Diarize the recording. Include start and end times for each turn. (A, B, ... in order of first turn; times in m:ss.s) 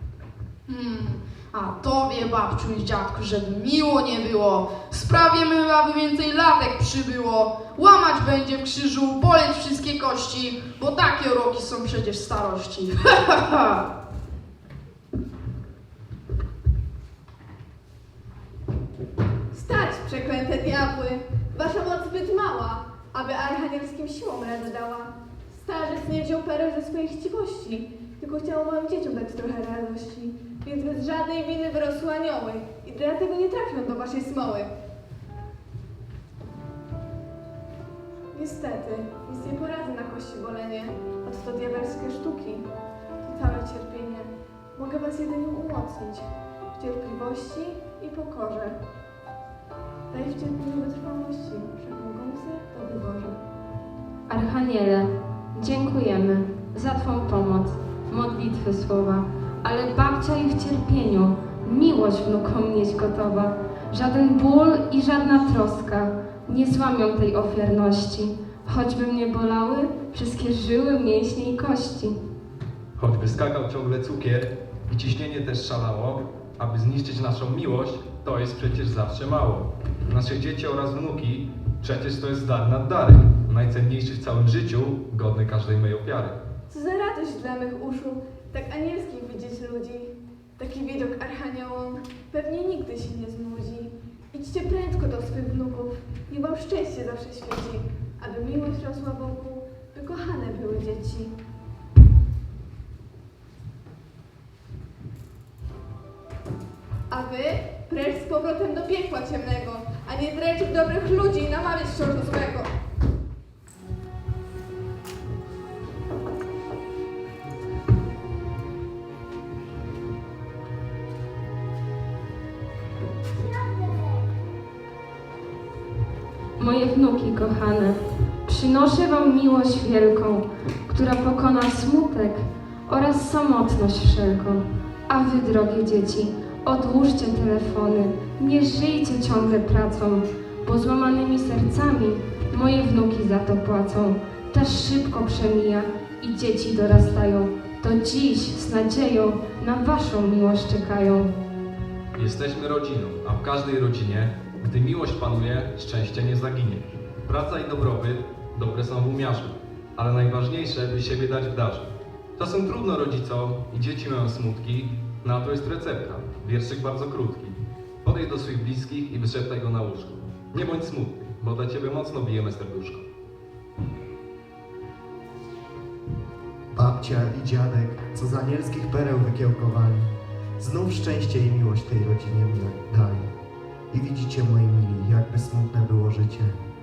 0:00.7-0:13.8 A
0:19.5-0:34.7 B
0:38.3-0:42.7 B
0:43.2-0:48.8 B
0:50.1-0:53.4 B
0:54.3-1:12.2 C
1:13.0-1:26.4 D
1:26.7-1:41.4 B
1:47.1-1:52.7 B
2:06.6-2:31.3 C
2:32.2-2:53.0 D
2:56.7-3:03.3 E
3:03.9-3:06.5 E